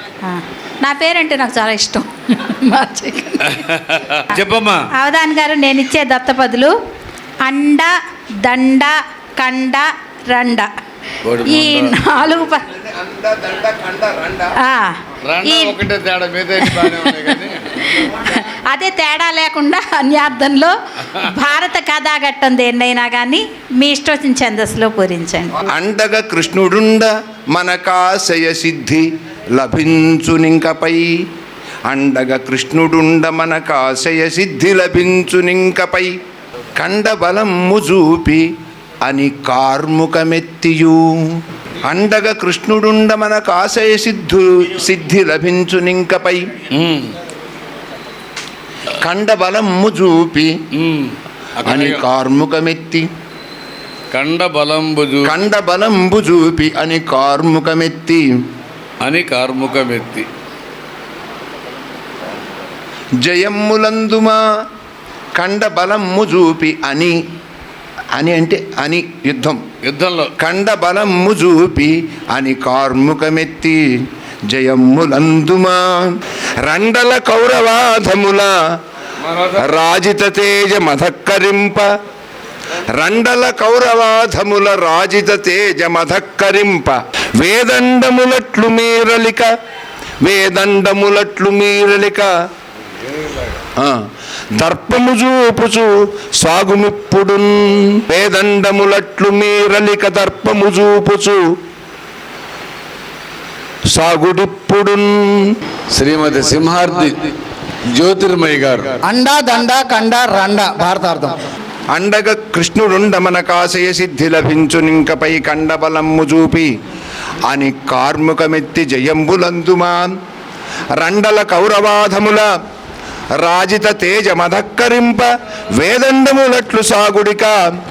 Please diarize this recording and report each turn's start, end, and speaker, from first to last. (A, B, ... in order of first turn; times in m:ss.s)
0:00.2-0:03.6 A
0:03.4-0:04.9 B
0:04.9-0:06.7 A
0:07.4-0:07.9 A
0:08.4-0:10.7 A
0:11.2-0:12.0 B
0:11.5-0:12.7 A
0:12.8-0:14.5 C
0:14.6-0:15.8 A
0:15.2-0:17.9 B
0:16.6-0:17.3 A
0:17.9-0:25.7 A
0:25.7-0:29.0 C
0:29.6-0:31.1 C
0:31.9-0:36.1 C
0:36.8-0:38.4 C
0:39.0-0:46.5 C
0:46.7-0:47.2 B
0:49.0-0:50.5 C
0:50.8-0:52.0 B
0:51.6-0:53.1 C
0:54.1-0:55.4 B
0:55.2-0:58.3 C
0:59.0-1:00.3 B
1:03.2-1:04.4 C
1:05.4-1:07.2 C
1:08.1-1:09.6 C
1:09.9-1:10.3 B
1:10.4-1:18.5 C
1:19.4-1:21.9 C
1:22.8-1:29.5 C
1:30.2-1:32.3 C
1:33.1-1:33.5 B
1:33.8-1:34.0 C
1:34.6-1:41.4 C
1:43.9-1:45.5 C
1:45.9-1:47.3 B
1:48.0-1:49.0 B
1:49.0-1:51.4 D
1:51.9-1:56.7 C
1:57.5-2:00.1 C
2:01.0-2:02.5 C
2:03.4-2:05.3 C
2:05.8-2:07.6 C